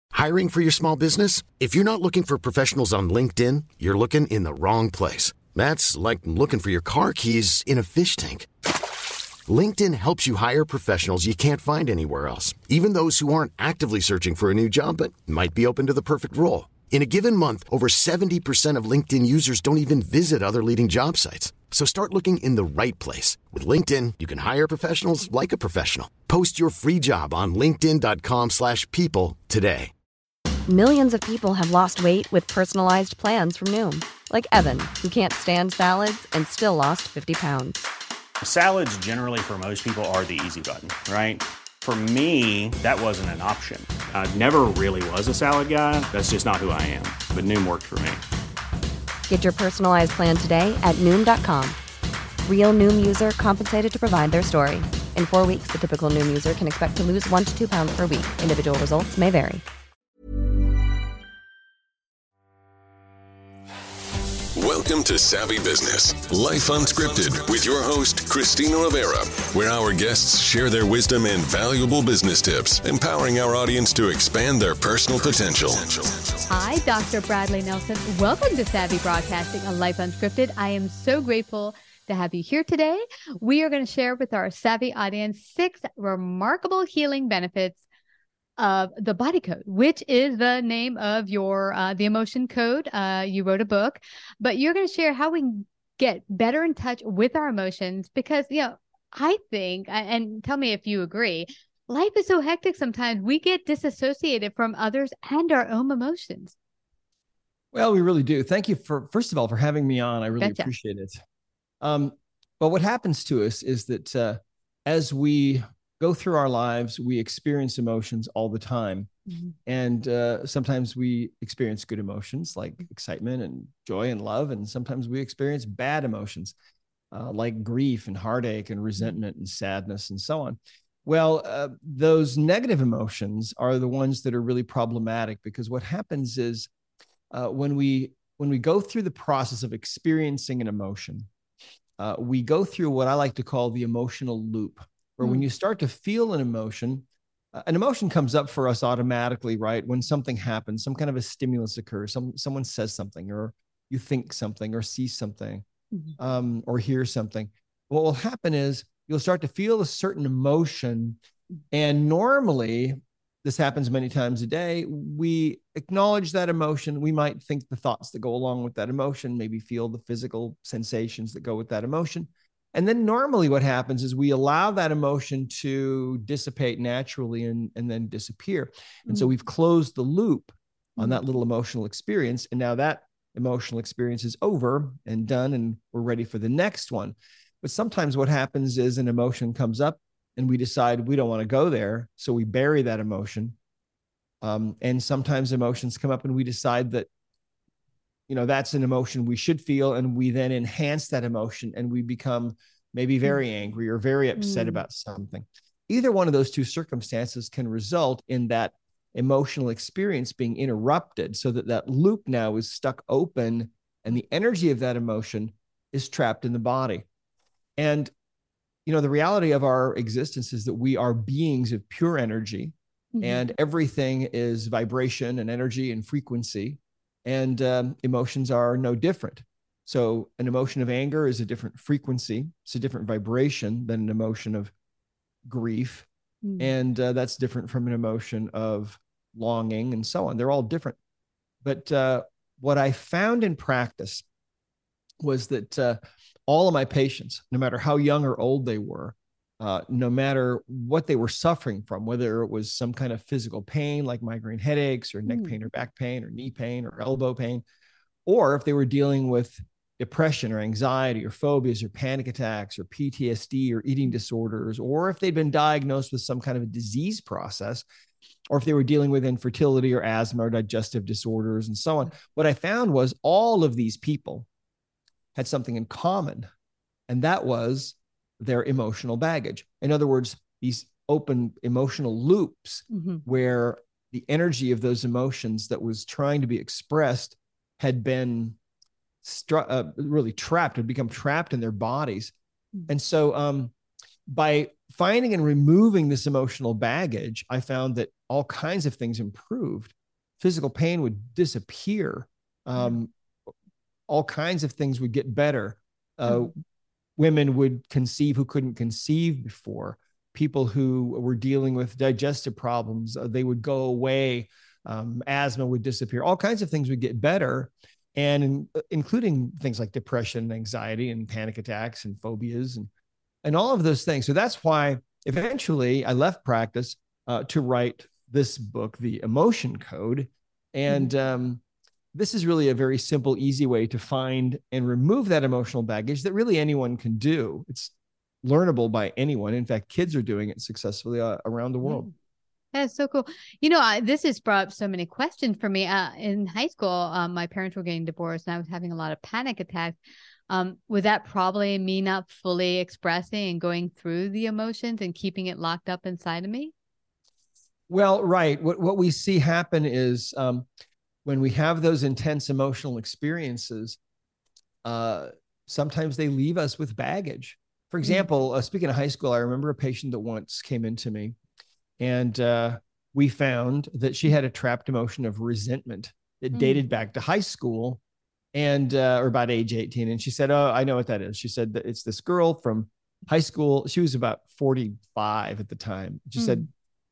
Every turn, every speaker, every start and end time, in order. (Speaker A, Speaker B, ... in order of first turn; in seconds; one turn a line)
Speaker A: 0.1-8.5
Speaker A: 9.5-29.9
Speaker B: 30.7-37.8
Speaker C: 38.4-48.2
Speaker B: 49.3-51.8
Speaker B: 52.5-59.6
Speaker D: 64.5-76.2
Speaker E: 76.5-87.8
Speaker E: 88.6-106.5
Speaker F: 107.7-111.2
Speaker E: 110.4-110.7
Speaker F: 111.8-119.1
Speaker E: 119.3-119.5
Speaker F: 119.7-126.5
Speaker F: 127.1-136.7
Speaker F: 137.3-141.3
Speaker F: 142.0-155.7
Speaker F: 156.2-161.2
Speaker F: 161.7-193.6
Speaker F: 194.4-197.1
Speaker F: 198.3-217.1
Speaker E: 204.4-204.8
Speaker F: 217.8-218.1
Speaker F: 218.9-234.7
Speaker E: 223.2-223.5
Speaker F: 235.4-236.1
Speaker E: 236.4-236.7
Speaker F: 236.6-241.0
Speaker F: 241.6-244.2
Speaker F: 245.2-257.6
Speaker E: 255.3-255.6
Speaker F: 258.2-267.9
Speaker F: 268.5-274.5
Speaker F: 275.4-276.5
Speaker F: 277.1-288.6
Speaker E: 282.9-283.2
Speaker F: 289.2-292.3
Speaker F: 292.9-293.7
Speaker F: 294.3-303.1
Speaker F: 304.1-306.5
Speaker F: 307.2-322.9
Speaker F: 323.4-331.6
Speaker F: 332.1-337.9
Speaker F: 338.4-342.1
Speaker E: 341.8-342.1
Speaker E: 342.7-350.0
Speaker E: 350.5-356.7
Speaker F: 357.9-360.7
Speaker F: 361.2-364.0
Speaker F: 364.8-371.4
Speaker F: 372.0-378.0
Speaker E: 376.5-376.8
Speaker F: 378.5-386.7
Speaker E: 386.4-386.7